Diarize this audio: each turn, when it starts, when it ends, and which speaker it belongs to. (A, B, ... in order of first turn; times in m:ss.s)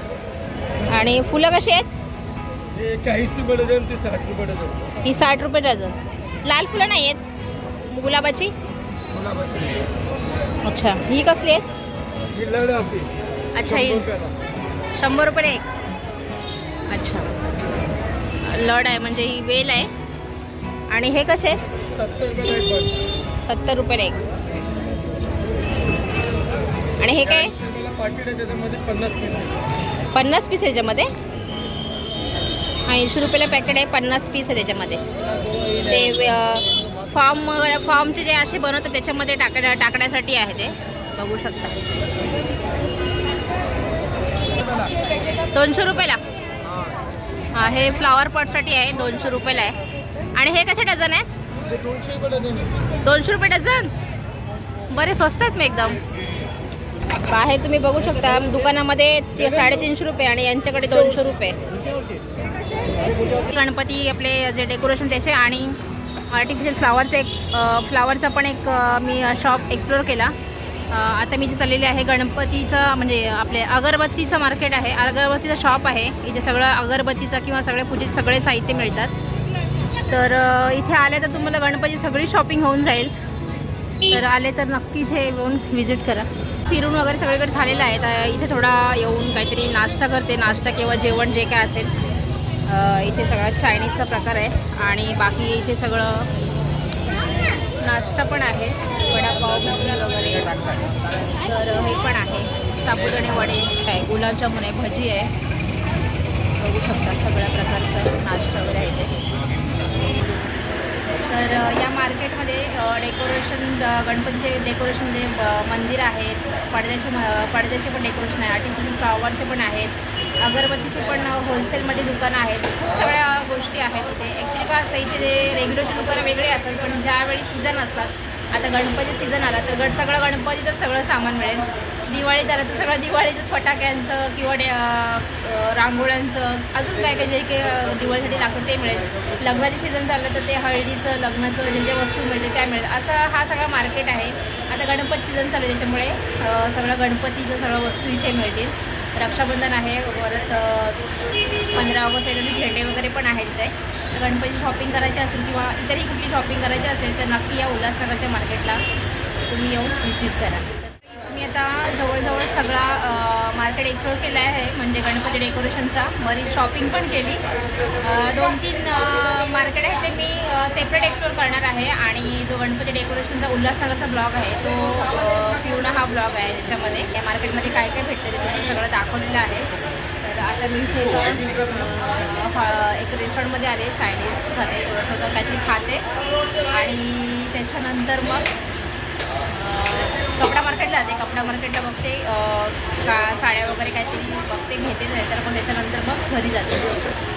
0:00.9-0:01.9 A
0:02.7-0:04.9 B
0:05.0-0:07.2 A
0:07.8-0:08.5 A
0:09.1-0:09.9 B
0:10.6-0:11.6 A
0:12.3-0:14.4 B
0:13.5-0:14.1 A
0:15.0-0:15.7 A
0:16.9-0:17.3 A
0:18.4-0:19.9 A
0:20.9-0:21.6 A
0:21.9-0:23.0 B
0:23.4-0:24.2 A
0:27.0-0:27.5 A
0:27.2-0:29.6 B
0:30.1-0:31.1 A
0:32.9-0:35.0 A
0:35.7-0:41.8 A
0:45.5-0:46.2 A
0:47.5-0:49.8 A
0:50.3-0:51.3 A
0:51.6-0:52.8 B
0:53.0-0:53.9 A
0:54.9-0:56.0 A
0:57.2-1:01.6 A
1:01.7-1:02.2 B
1:03.0-1:03.4 B
1:03.5-1:05.8 A
1:06.3-1:10.4 A
1:10.9-1:19.1 A
1:20.0-1:23.1 A
1:24.1-1:31.9 A
1:32.6-1:36.3 A
1:37.8-1:40.8 A
1:41.4-1:45.3 A
1:46.5-1:49.2 A
1:51.3-2:31.0 A
2:31.7-2:38.8 A
2:39.5-2:47.4 A
2:48.0-2:59.7 A
3:00.2-3:06.0 A
3:06.7-3:08.5 A
3:09.5-3:17.0 A